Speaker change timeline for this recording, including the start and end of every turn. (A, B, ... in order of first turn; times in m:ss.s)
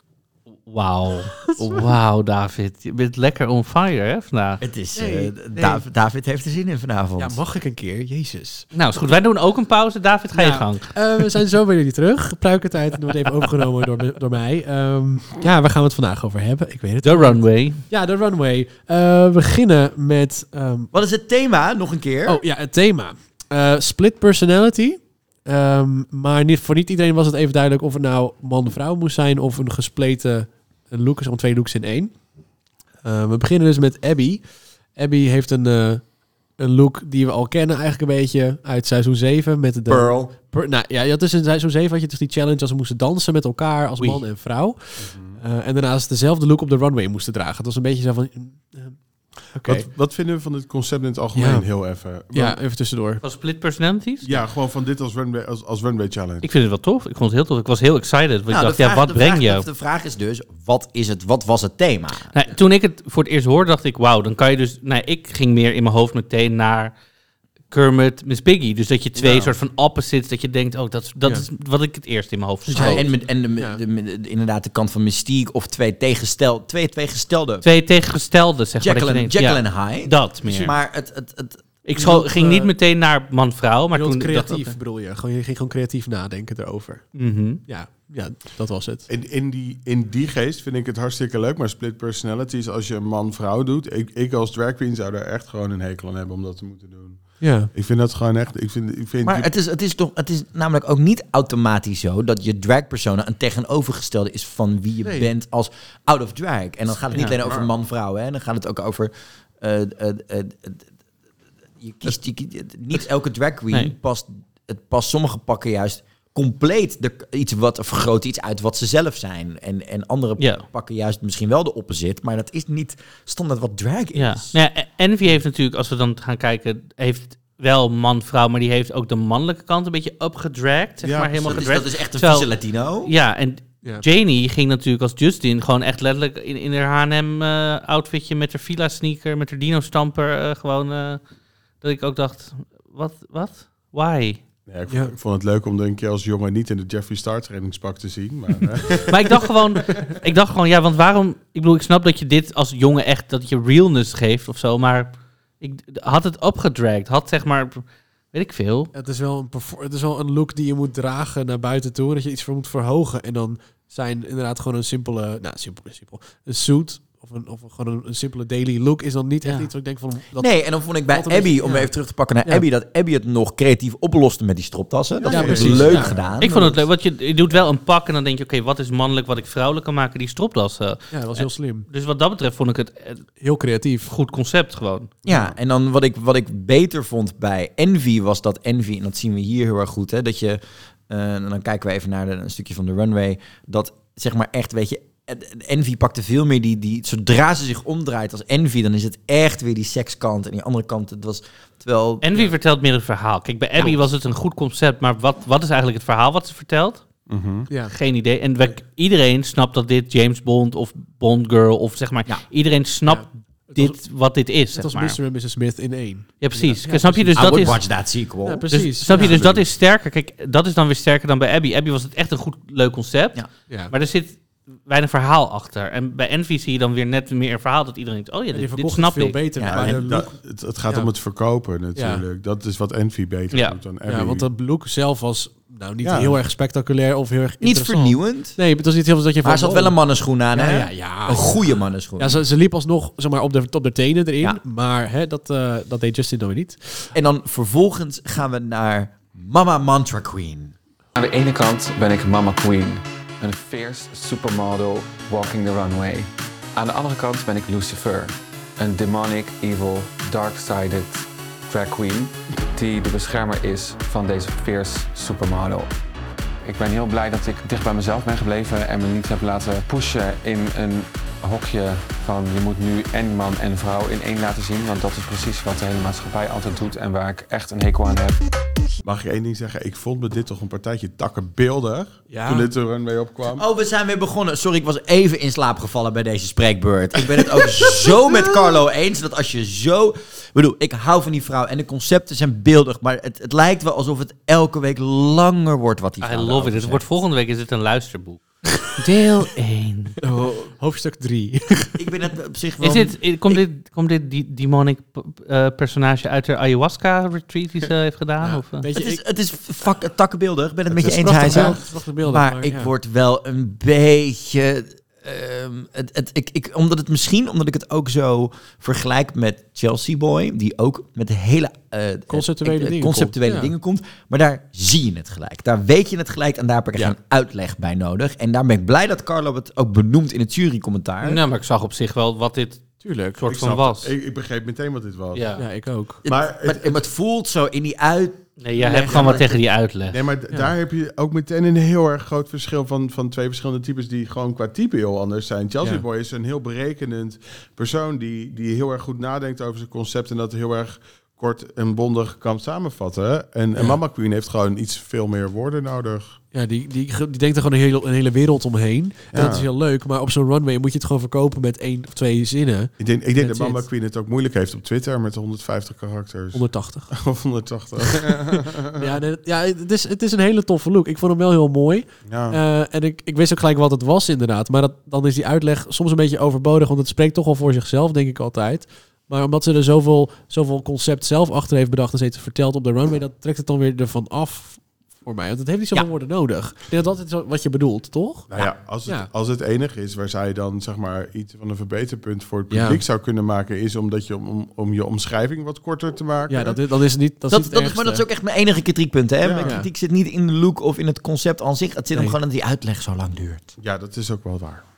0:00.6-0:04.6 A
0:04.6-0:07.4 B
0:04.9-0:05.8 C
0:07.2-0:08.7 C
0:08.7-0:10.9 A
0:10.3-0:20.9 C
0:17.0-0:17.8 A
0:20.9-0:22.4 B
0:22.2-0:32.1 C
0:33.0-0:34.4 C
0:35.0-0:36.0 C
0:36.6-0:49.0 C
0:39.9-0:40.3 B
0:45.0-0:45.4 D
0:49.5-0:49.8 C
0:49.6-0:52.6 D
0:51.4-0:51.6 C
0:52.3-0:53.2 C
0:53.2-0:54.4 A
0:54.2-0:56.4 D
0:56.4-0:59.6 A
0:58.5-1:02.3 B
1:02.3-1:06.9 A
1:07.7-1:13.0 A
1:12.7-1:13.8 C
1:12.8-1:17.6 B
1:17.6-1:20.7 A
1:18.8-1:21.6 B
1:20.4-1:20.7 C
1:21.8-1:24.8 A
1:21.9-1:22.7 C
1:23.9-1:27.1 C
1:27.1-1:27.6 A
1:27.6-1:29.0 C
1:29.1-1:39.5 D
1:37.4-1:37.7 C
1:39.2-1:50.8 B
1:45.0-1:45.3 C
1:51.8-2:04.6 B
2:00.4-2:00.6 A
2:04.1-2:12.5 A
2:11.0-2:11.6 D
2:11.4-2:13.1 B
2:13.0-2:21.2 A
2:21.8-2:24.4 A
2:24.7-2:29.5 D
2:24.9-2:25.1 C
2:29.0-2:37.8 A
2:38.3-2:38.9 A
2:38.9-2:51.9 C
2:50.4-2:56.8 B
2:55.2-2:56.3 D
2:55.3-2:56.2 C
2:56.4-3:03.2 A
3:01.1-3:01.9 C
3:03.4-3:04.1 C
3:04.0-3:05.1 A
3:05.2-3:22.2 B
3:05.3-3:05.5 D
3:22.2-3:27.0 A
3:27.3-3:27.7 D
3:27.9-3:35.2 A
3:33.0-3:34.0 C
3:34.7-3:37.8 C
3:36.4-3:37.8 A
3:37.4-3:39.6 B
3:38.4-3:39.4 C
3:38.7-3:49.4 A
3:48.5-3:50.3 C
3:49.6-3:50.0 B
3:49.7-3:54.5 D
3:52.0-3:52.2 C
3:53.5-3:53.8 A
3:54.1-4:00.0 C
3:56.0-3:56.4 D
3:57.6-3:58.6 B
3:59.4-4:02.4 B
4:00.5-4:07.1 C
4:07.1-4:10.7 B
4:11.1-4:25.9 E
4:26.6-4:38.4 E
4:39.0-4:43.6 D
4:42.3-4:42.7 C
4:43.5-4:57.0 B
4:56.2-4:58.4 A
4:58.9-5:00.2 A
5:00.2-5:02.0 C
5:02.0-5:03.6 B
5:02.8-5:08.9 A
5:08.4-5:09.2 C
5:08.9-5:31.4 B
5:10.9-5:12.9 C
5:11.2-5:11.8 D
5:22.3-5:23.7 C
5:31.2-5:34.1 A
5:33.0-5:33.4 C
5:33.5-5:35.6 D
5:35.3-5:35.6 A
5:35.6-5:36.2 C
5:36.2-5:39.5 B
5:36.2-5:37.0 D
5:38.6-5:40.2 A
5:39.0-5:39.5 D
5:40.1-5:56.4 D
5:56.5-6:03.8 C
5:59.3-5:59.7 D
6:03.0-6:09.1 D
6:06.5-6:07.1 C
6:08.0-6:28.5 C
6:12.2-6:12.6 D
6:28.5-6:36.8 D
6:32.7-6:33.0 C
6:36.5-6:38.2 C
6:37.5-6:43.7 B
6:39.4-6:39.8 D
6:39.6-6:39.9 C
6:43.8-6:44.8 D